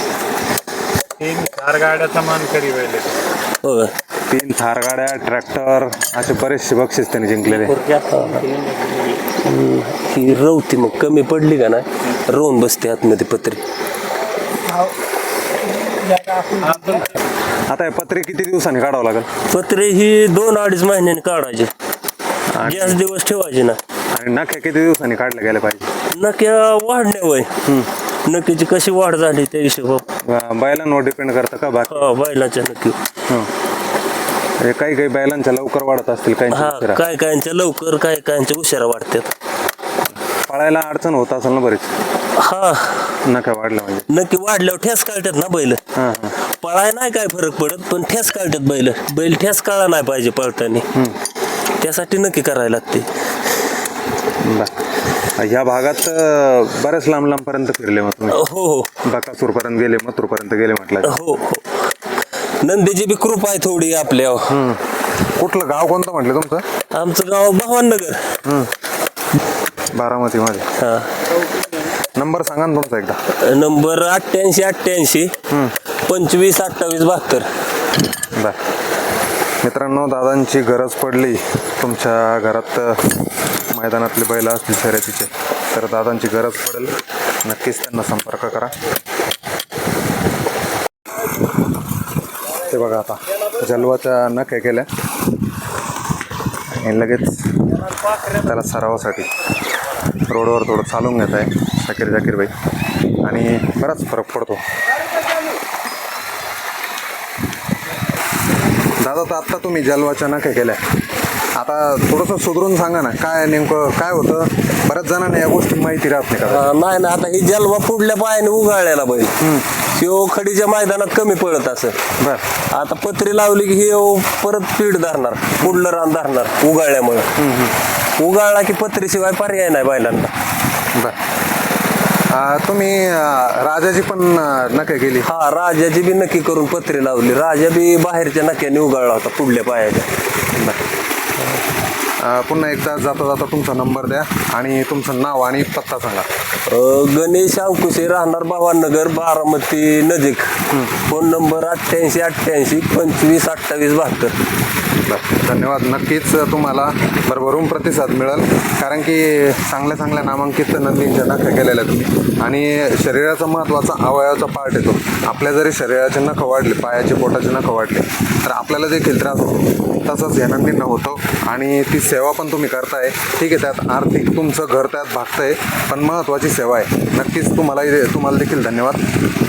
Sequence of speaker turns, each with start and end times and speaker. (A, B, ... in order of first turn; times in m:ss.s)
0:01.2-0:03.2 A
0:03.6-0:03.9 B
0:04.3-0:07.8 C
0:07.7-0:09.2 A
0:08.1-0:08.5 B
0:09.3-0:13.6 B
0:14.7-0:14.9 A
0:15.7-0:17.1 A
0:17.7-0:19.3 C
0:19.5-0:21.7 B
0:22.5-0:23.0 C
0:22.6-0:23.8 B
0:24.2-0:25.9 C
0:26.1-0:27.6 B
0:28.2-0:30.1 B
0:30.3-0:32.1 C
0:31.9-0:33.0 B
0:34.6-0:37.0 C
0:36.5-0:39.3 B
0:40.5-0:41.9 C
0:42.3-0:43.2 B
0:43.2-0:44.1 C
0:44.1-0:45.8 B
0:46.0-0:46.4 C
0:46.4-0:50.9 B
0:51.8-0:53.1 B
0:54.4-0:54.8 C
0:55.4-0:58.4 C
0:58.3-0:58.9 B
0:59.0-1:01.2 C
1:01.0-1:01.9 B
1:02.6-1:04.6 B
1:04.5-1:06.6 C
1:06.9-1:08.4 B
1:08.4-1:08.7 C
1:09.9-1:10.7 C
1:10.8-1:11.1 B
1:12.2-1:13.2 C
1:13.3-1:15.3 B
1:15.5-1:15.8 C
1:16.0-1:17.5 B
1:19.6-1:23.2 C
1:23.7-1:28.8 C
1:32.6-1:34.9 C
1:36.7-1:37.7 C
1:38.2-1:39.3 C
1:40.2-1:42.5 C
1:43.2-1:44.6 C
1:49.0-1:50.8 C
1:51.6-1:56.7 C
1:56.5-2:02.0 B
1:59.4-1:59.7 C
2:02.2-2:02.4 C
2:02.6-2:07.3 B
2:07.4-2:07.8 C
2:08.1-2:10.3 B
2:12.3-2:15.3 C
2:15.2-2:20.1 B
2:20.5-2:20.8 C
2:22.2-2:26.3 C
2:26.6-2:34.3 B
2:35.0-2:59.1 C